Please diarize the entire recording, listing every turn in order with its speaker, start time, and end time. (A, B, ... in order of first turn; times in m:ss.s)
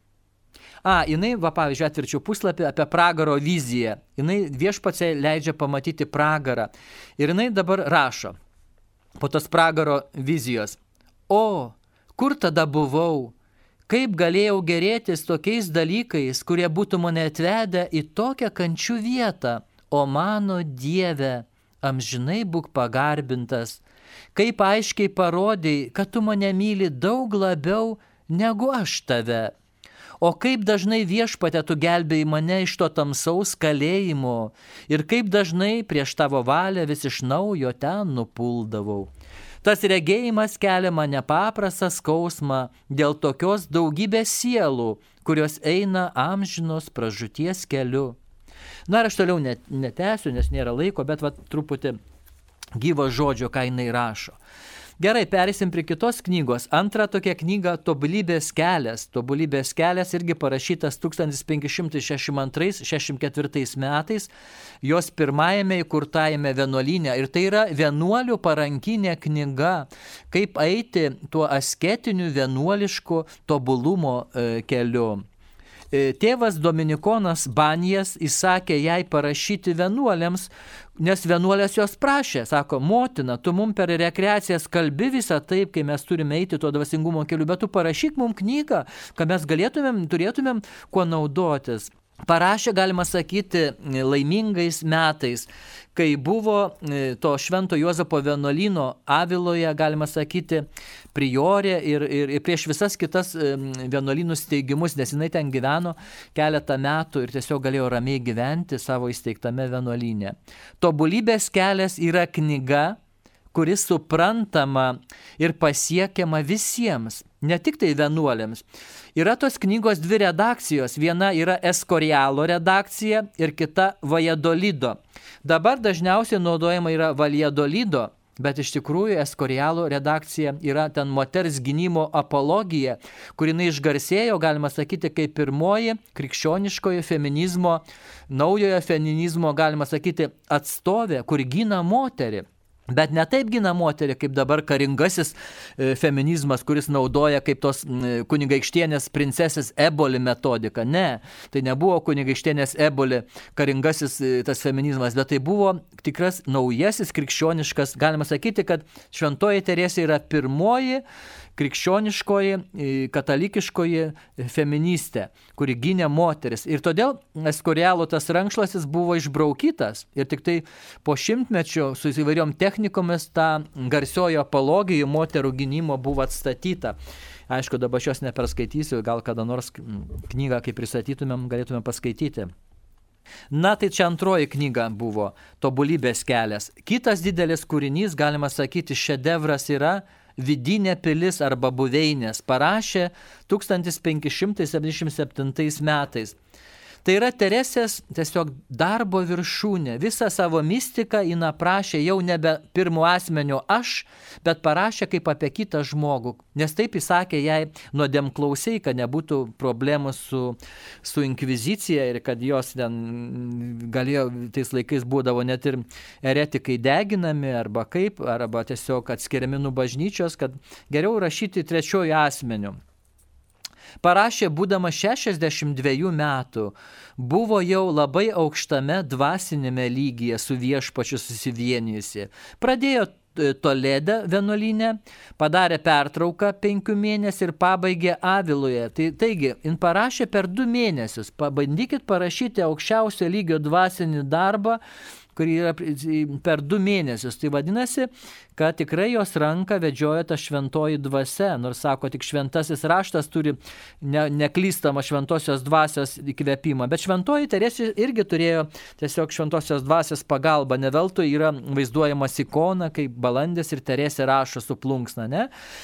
0:00.8-0:08.4 A
0:09.2-0:10.8 A
0:11.3-0:13.3 A
0:13.9-0:23.8 A
0:24.3-0:29.5 A
0:30.2-0:39.1 A
0:39.6-0:48.2 A
0:48.9-0:52.0 A
0:52.8-0:54.4 A
0:55.0-1:04.3 A
1:04.8-1:15.2 A
1:15.9-1:53.0 A
1:53.5-1:58.6 A
1:59.1-2:41.0 A
2:41.6-2:57.0 A
2:57.5-3:02.5 A
3:03.5-3:16.4 A
3:17.0-3:42.8 A
3:44.0-4:04.8 A
4:05.3-4:25.5 A